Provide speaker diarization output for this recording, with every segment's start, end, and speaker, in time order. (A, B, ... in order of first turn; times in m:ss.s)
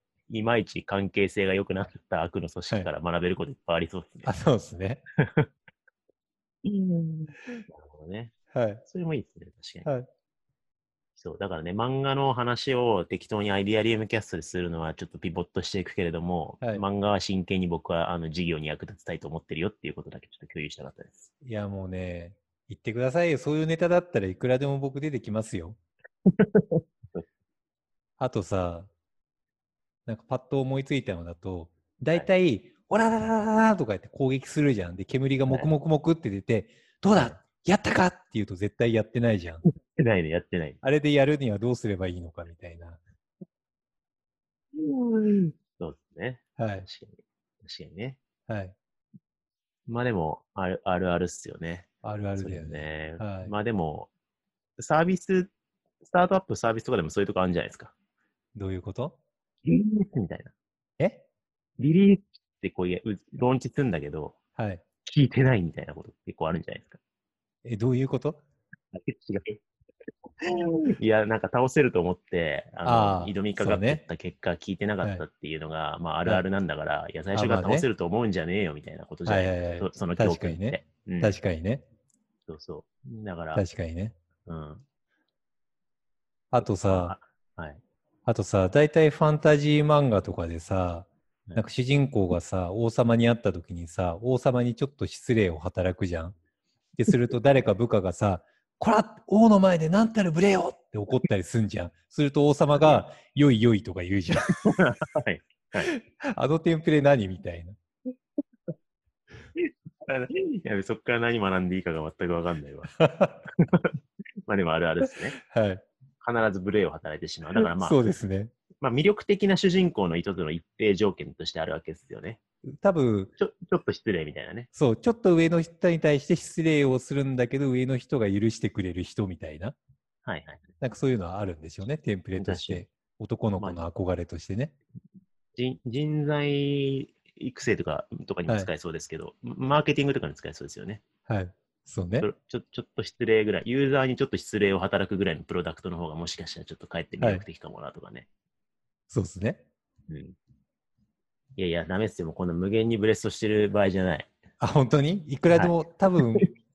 0:00.3-0:04.3 A
0:04.2-0:05.0 B
0:05.2-0:05.5 A
0:06.6-0:09.9 A
0:08.5-0:08.8 B
0:11.2-0:21.3 A
0:21.4-0:25.8 B
0:26.3-0:27.2 A
0:28.2-0:28.9 B
0:30.0-0:39.6 B
0:37.1-0:37.4 A
0:39.6-0:40.8 A
0:40.8-0:43.0 B
0:44.8-0:48.2 A
0:46.6-0:46.9 B
0:48.5-0:48.7 B
0:49.8-0:54.1 A
0:52.0-0:53.5 B
0:54.8-0:55.5 A
0:56.0-0:57.9 A
0:58.5-0:59.2 B
0:59.6-1:00.5 A
1:01.0-1:01.2 B
1:01.8-1:04.4 A
1:04.6-1:04.8 B
1:05.0-1:07.0 A
1:07.6-1:08.4 B
1:08.9-1:09.6 A
1:10.4-1:21.4 A
1:12.8-1:14.0 B
1:17.3-1:17.9 B
1:19.2-1:21.8 B
1:22.5-1:23.6 A
1:23.5-1:24.1 B
1:24.4-1:24.8 A
1:26.5-1:27.1 B
1:26.6-1:27.8 A
1:28.2-1:36.3 B
1:37.0-1:44.6 B
1:42.8-1:43.0 A
1:44.6-1:45.9 A
1:45.8-1:47.8 B
1:49.6-1:52.9 A
1:52.9-1:53.4 B
1:53.5-1:53.9 A
1:54.5-1:55.4 A
1:55.4-1:55.8 B
1:56.2-1:58.0 A
1:57.6-1:58.5 B
1:58.8-2:02.4 A
2:02.8-2:03.3 B
2:03.4-2:04.7 A
2:04.7-2:09.8 B
2:10.2-2:10.6 A
2:10.8-2:14.7 B
2:12.4-2:12.8 A
2:15.5-2:21.0 A
2:21.3-2:22.3 B
2:22.2-2:28.3 A
2:29.1-2:29.6 B
2:30.1-2:30.4 A
2:31.6-2:34.3 A
2:34.6-2:36.5 B
2:35.5-2:35.8 A